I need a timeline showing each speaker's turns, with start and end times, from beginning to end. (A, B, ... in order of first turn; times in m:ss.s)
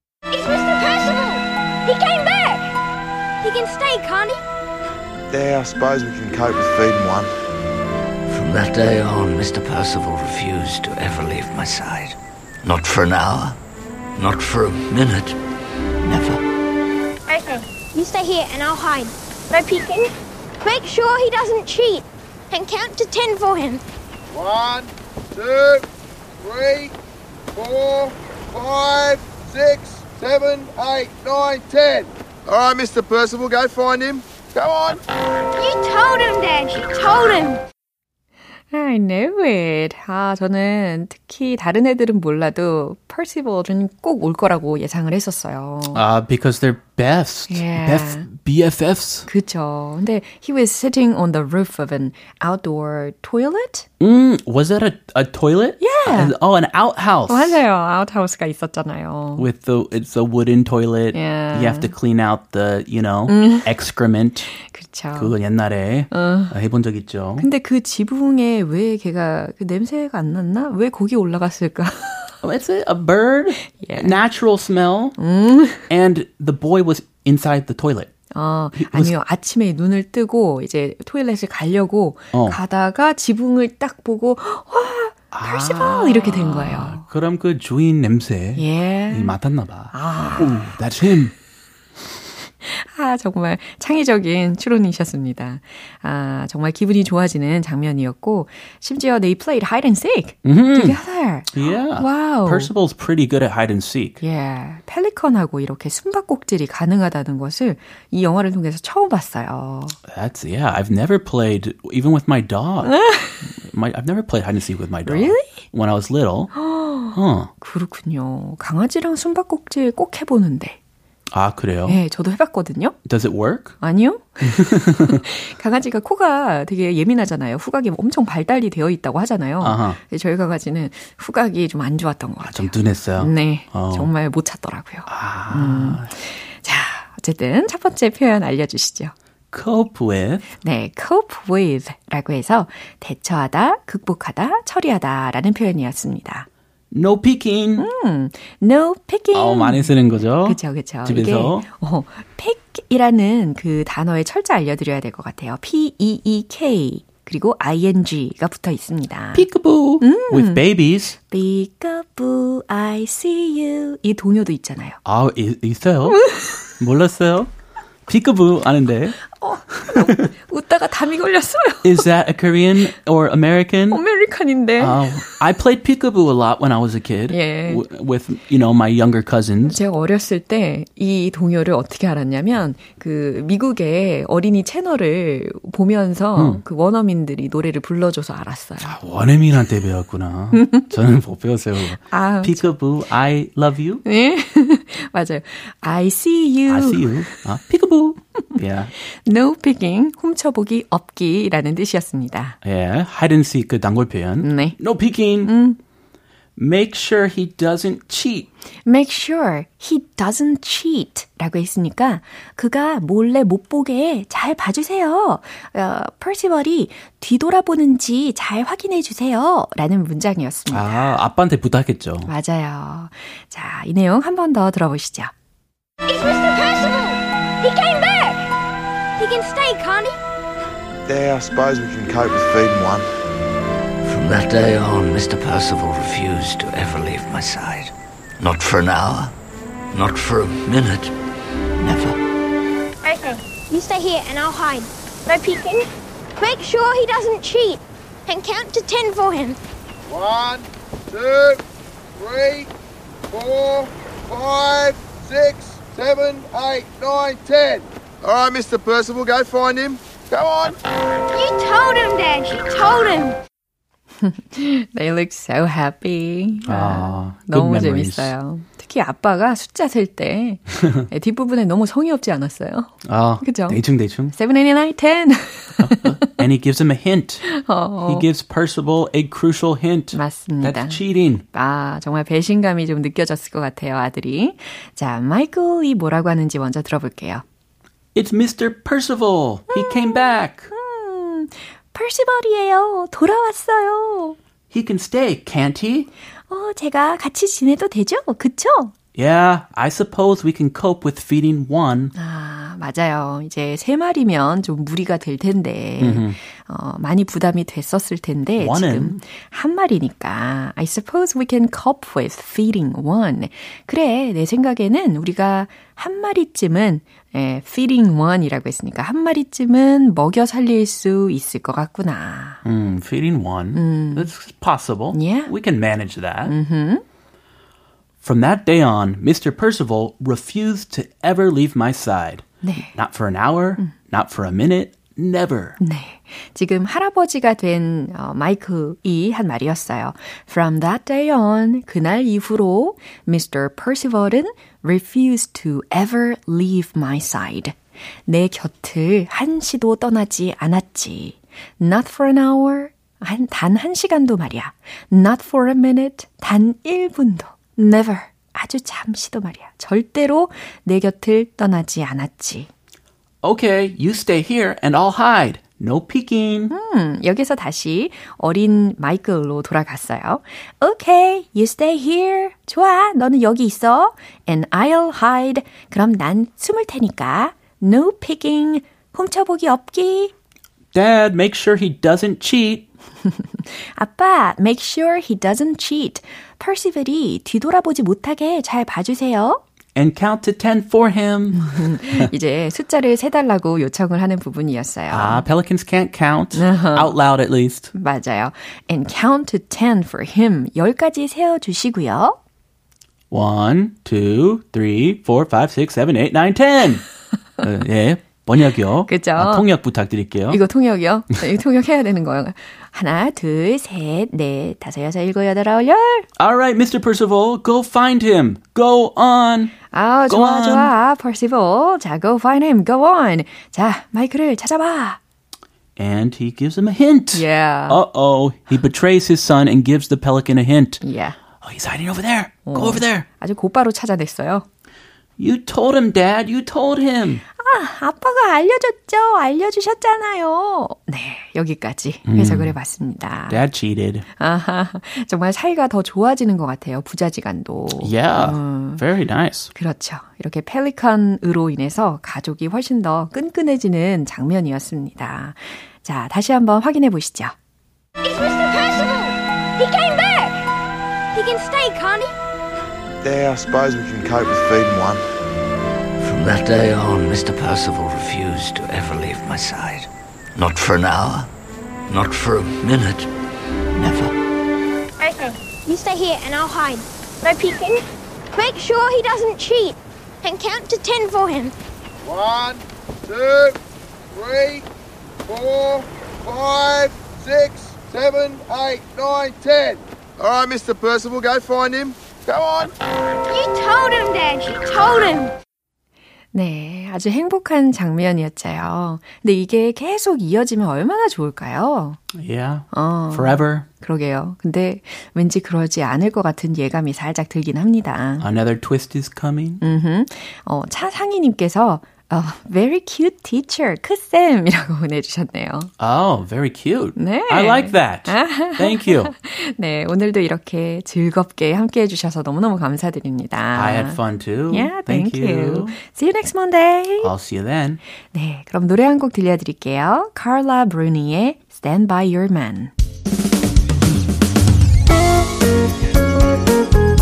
0:00.3-0:02.7 A
0:03.4-0:04.4 A
0:05.3-0:07.3 B
0:08.3-0:13.6 C
0:14.2-0:15.4 C
0:16.0-0:16.4 C
0:17.3-0:20.1 A
0:20.6-0:23.8 A
0:24.3-0:25.8 B
0:26.4-0:27.0 B
0:27.5-0:35.0 B
0:35.5-0:37.6 A
0:38.7-0:46.0 D
0:45.9-0:49.3 E
0:47.5-0:48.3 D
0:49.3-0:53.9 D
0:54.0-0:57.6 E
0:55.8-0:56.3 D
0:57.3-0:59.5 D
0:59.4-1:04.5 E
1:01.1-1:01.9 D
1:03.3-1:03.6 D
1:04.6-1:05.3 D
1:05.1-1:07.5 E
1:06.1-1:06.5 D
1:07.4-1:12.3 D
1:12.4-1:15.2 E
1:13.8-1:14.2 D
1:15.2-1:15.9 D
1:15.9-1:18.1 E
1:18.3-1:27.0 D
1:18.8-1:19.1 E
1:22.3-1:22.6 E
1:25.3-1:31.3 E
1:28.6-1:29.4 D
1:29.9-1:30.7 D
1:32.6-1:42.7 D
1:40.4-1:41.0 E
1:41.5-1:44.2 E
1:44.2-1:50.0 D
1:50.1-1:56.5 E
1:52.8-1:53.4 D
1:55.0-1:55.6 D
1:56.5-2:00.8 D
1:57.1-1:57.5 E
2:01.3-2:02.0 E
2:01.8-2:03.0 D
2:03.0-2:03.8 E
2:03.8-2:19.1 D
2:04.4-2:05.2 E
2:09.6-2:10.0 E
2:12.4-2:14.1 E
2:15.1-2:16.1 E
2:19.5-2:20.4 E
2:20.6-2:26.5 D
2:26.9-2:27.9 E
2:27.8-2:29.9 D
2:29.3-2:31.7 E
2:30.4-2:39.5 D
2:39.3-2:41.2 E
2:40.0-2:40.6 D
2:41.3-2:45.0 D
2:45.0-2:46.2 E
2:46.1-2:46.6 D
2:46.8-2:47.5 E
2:48.1-2:49.2 E
2:49.3-2:52.1 D
2:49.8-2:50.1 E
2:51.8-2:54.0 E
2:53.9-2:55.4 D
2:54.8-2:59.8 E
2:57.3-2:57.8 D
2:59.6-3:09.0 D
3:06.4-3:06.6 E
3:08.8-3:14.0 E
3:10.5-3:10.9 D
3:12.1-3:12.7 D
3:14.0-3:17.4 D
3:16.7-3:18.9 E
3:18.5-3:22.6 D
3:22.6-3:25.5 E
3:24.4-3:24.8 D
3:25.4-3:25.8 D
3:26.6-3:28.5 E
3:28.8-3:41.2 D
3:40.7-3:42.3 E
3:42.2-3:45.3 D
3:46.1-3:48.5 A
3:49.2-3:50.2 A
3:51.0-3:53.1 B
3:54.0-3:59.3 C
3:59.9-4:01.1 C
4:01.8-4:02.2 C
4:03.0-4:05.9 A
4:06.4-4:09.6 A
4:10.1-4:11.6 B
4:12.1-4:12.7 B
4:13.3-4:20.8 B
4:21.3-4:23.4 A
4:24.2-4:33.8 D
4:26.6-4:28.3 E
4:30.8-4:31.1 E
4:33.0-4:34.3 E
4:34.3-4:36.4 D
4:35.8-4:37.5 E
4:37.4-4:38.2 D
4:38.1-4:41.4 E
4:40.1-4:41.0 D
4:41.5-4:47.4 D
4:48.1-4:50.7 E
4:49.7-4:54.4 D
4:54.7-4:56.1 E
4:56.5-4:58.9 D
4:59.1-5:02.1 E
5:02.1-5:22.6 D
5:06.0-5:06.4 E
5:08.6-5:09.2 E
5:22.6-5:26.5 E
5:23.7-5:24.3 D
5:25.1-5:25.5 D
5:26.5-5:27.0 D
5:28.2-5:35.8 E
5:32.6-5:32.9 D
5:35.8-5:47.8 D
5:48.3-6:02.7 D
6:03.4-6:06.7 E
6:06.7-6:20.3 D
6:20.9-6:22.9 E
6:23.5-6:29.6 D
6:29.9-6:32.3 E
6:31.5-6:35.4 D
6:35.1-6:37.9 E
6:36.5-6:37.2 D
6:37.9-6:42.4 D
6:43.3-6:47.0 E
6:47.6-6:50.6 E
6:49.1-6:49.7 D
6:50.5-6:56.2 D
6:56.4-6:59.8 E
6:59.9-7:05.2 D
7:00.3-7:00.9 E
7:06.0-7:11.0 E
7:07.3-7:08.0 D
7:11.0-7:11.4 D
7:11.6-7:13.2 E
7:12.6-7:14.6 D
7:15.4-7:17.4 E
7:17.6-7:23.6 D
7:22.2-7:22.8 E
7:23.5-7:24.2 E
7:24.4-7:29.0 D
7:28.0-7:29.7 E
7:29.7-7:37.5 D
7:38.2-7:40.6 A
7:41.3-7:42.4 A
7:43.2-7:45.2 B
7:46.2-7:51.5 C
7:52.1-7:53.3 C
7:53.9-7:54.3 C
7:55.2-8:01.7 A
8:02.2-8:03.8 B
8:04.3-8:04.9 B
8:05.5-8:12.9 B
8:13.5-8:15.5 A
8:16.5-8:22.2 D
8:22.3-8:23.9 E
8:22.9-8:28.5 D
8:28.4-8:29.8 E
8:29.8-8:35.9 D
8:36.0-8:39.3 E
8:37.2-8:44.2 D
8:43.7-8:46.0 E
8:44.7-8:47.3 D
8:47.2-8:48.0 E
8:48.3-8:52.9 D